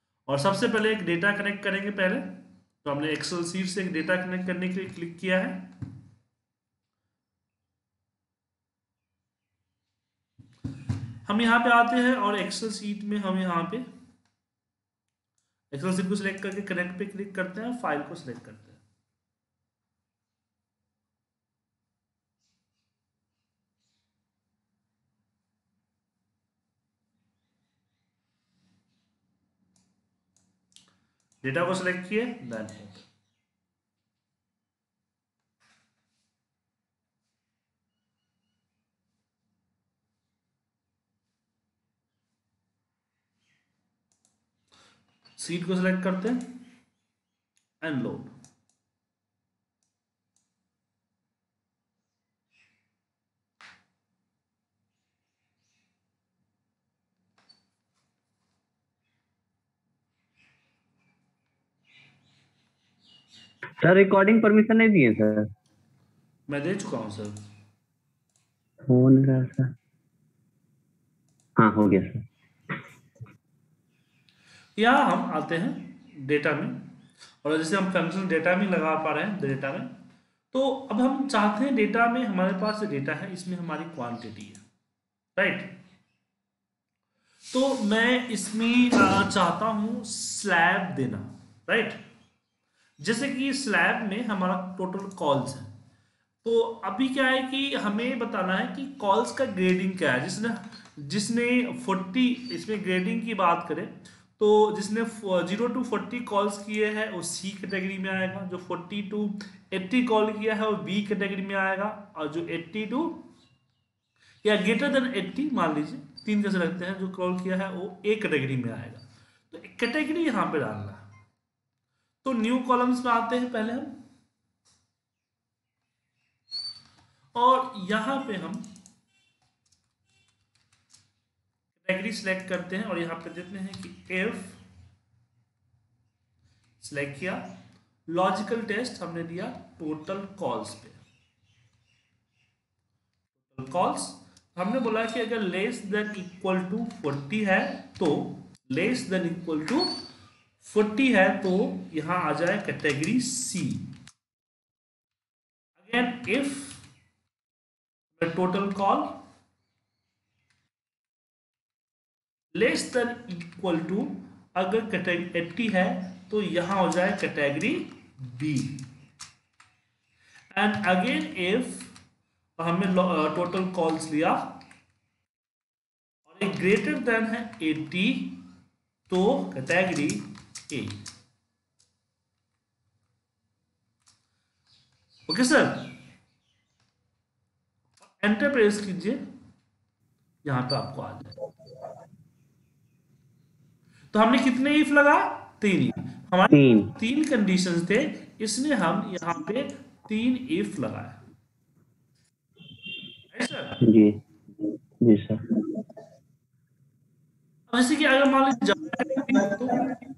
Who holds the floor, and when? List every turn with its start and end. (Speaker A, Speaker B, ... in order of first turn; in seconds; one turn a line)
Speaker A: 0.3-2.3
Speaker A: 2.8-5.6
Speaker A: 11.3-13.8
Speaker A: 15.7-18.8
Speaker A: 31.4-33.1
Speaker A: 45.4-46.5
Speaker A: 47.8-48.3
Speaker B: 63.8-65.5
Speaker A: 66.5-67.4
Speaker B: 68.9-69.7
Speaker B: 71.6-72.2
Speaker A: 74.8-76.8
Speaker A: 77.4-79.9
Speaker A: 80.5-84.6
Speaker A: 85.3-85.7
Speaker A: 87.5-92.0
Speaker A: 93.0-95.7
Speaker A: 96.4-113.2
Speaker A: 114.4-121.0
Speaker A: 122.2-123.9
Speaker A: 127.3-128.6
Speaker A: 131.8-134.6
Speaker A: 136.8-137.4
Speaker A: 138.1-141.0
Speaker A: 143.4-149.9
Speaker A: 150.6-153.9
Speaker A: 155.8-156.8
Speaker A: 158.2-159.1
Speaker A: 162.5-168.8
Speaker A: 170.5-171.9
Speaker A: 172.6-174.6
Speaker A: 176.2-178.3
Speaker A: 179.1-181.0
Speaker A: 185.3-185.9
Speaker A: 188.2-189.2
Speaker A: 190.4-191.4
Speaker A: 194.1-201.2
Speaker B: 196.5-196.9
Speaker A: 203.3-203.8
Speaker B: 203.8-204.2
Speaker B: 205.0-205.4
Speaker A: 207.7-209.8